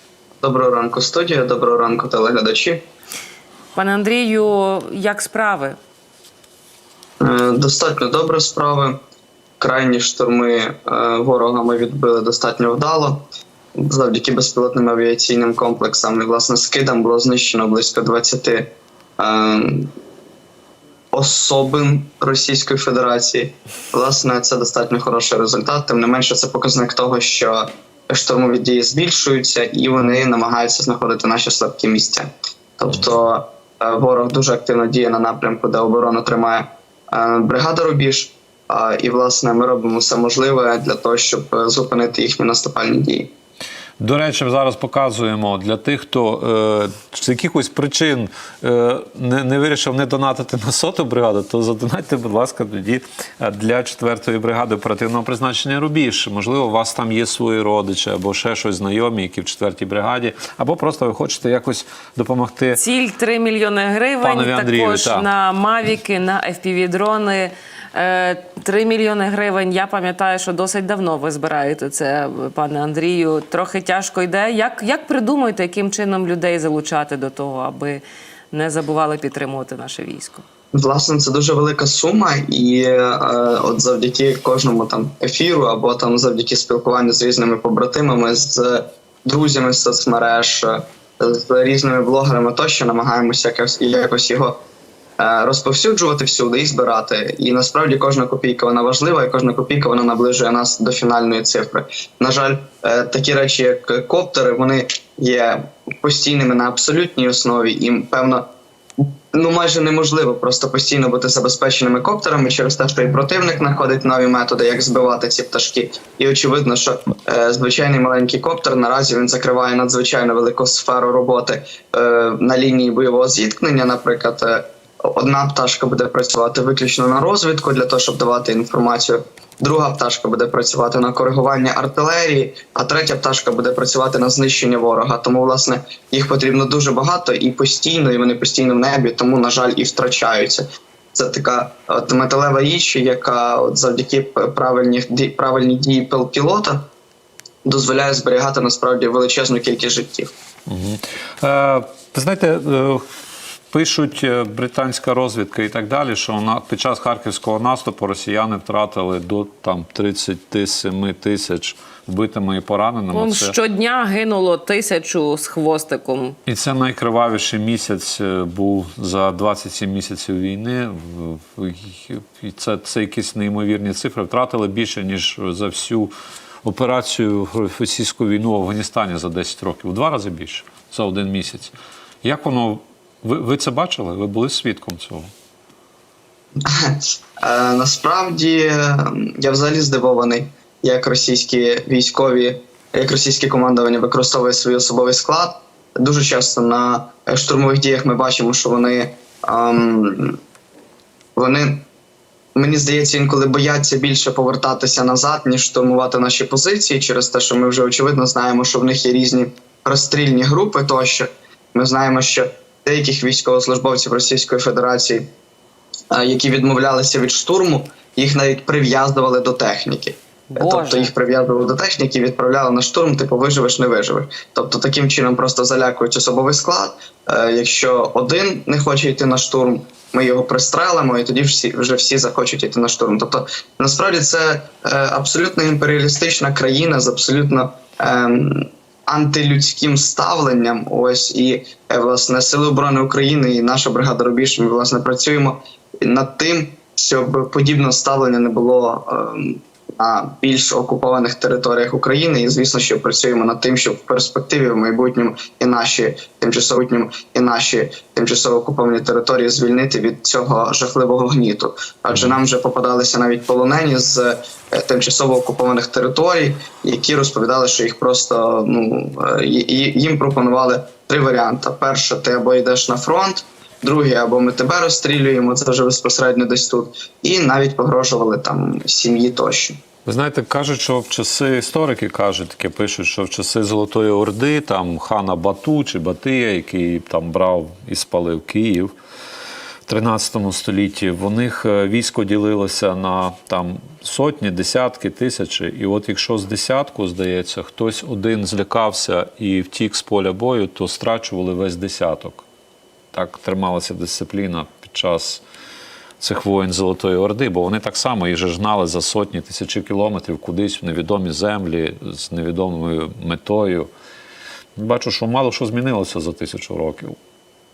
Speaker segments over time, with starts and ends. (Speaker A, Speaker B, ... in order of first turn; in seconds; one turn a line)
Speaker A: 0.4-2.8
Speaker B: 3.7-5.8
Speaker A: 7.2-8.9
Speaker A: 9.6-13.2
Speaker A: 13.7-19.9
Speaker A: 21.1-43.3
Speaker C: 44.0-62.8
Speaker B: 62.7-80.4
Speaker C: 64.2-65.3
Speaker A: 80.7-94.6
Speaker A: 95.2-108.5
Speaker A: 109.0-146.8
Speaker A: 147.6-150.3
Speaker C: 150.7-153.0
Speaker C: 153.7-163.6
Speaker B: 163.1-166.4
Speaker C: 166.4-176.1
Speaker C: 176.6-185.3
Speaker A: 186.6-200.4
Speaker A: 201.3-201.8
Speaker A: 202.5-215.2
Speaker A: 216.1-279.8
Speaker B: 220.5-221.1
Speaker C: 280.1-288.9
Speaker C: 289.9-302.4
Speaker C: 303.1-305.4
Speaker C: 306.2-313.9
Speaker C: 314.8-317.2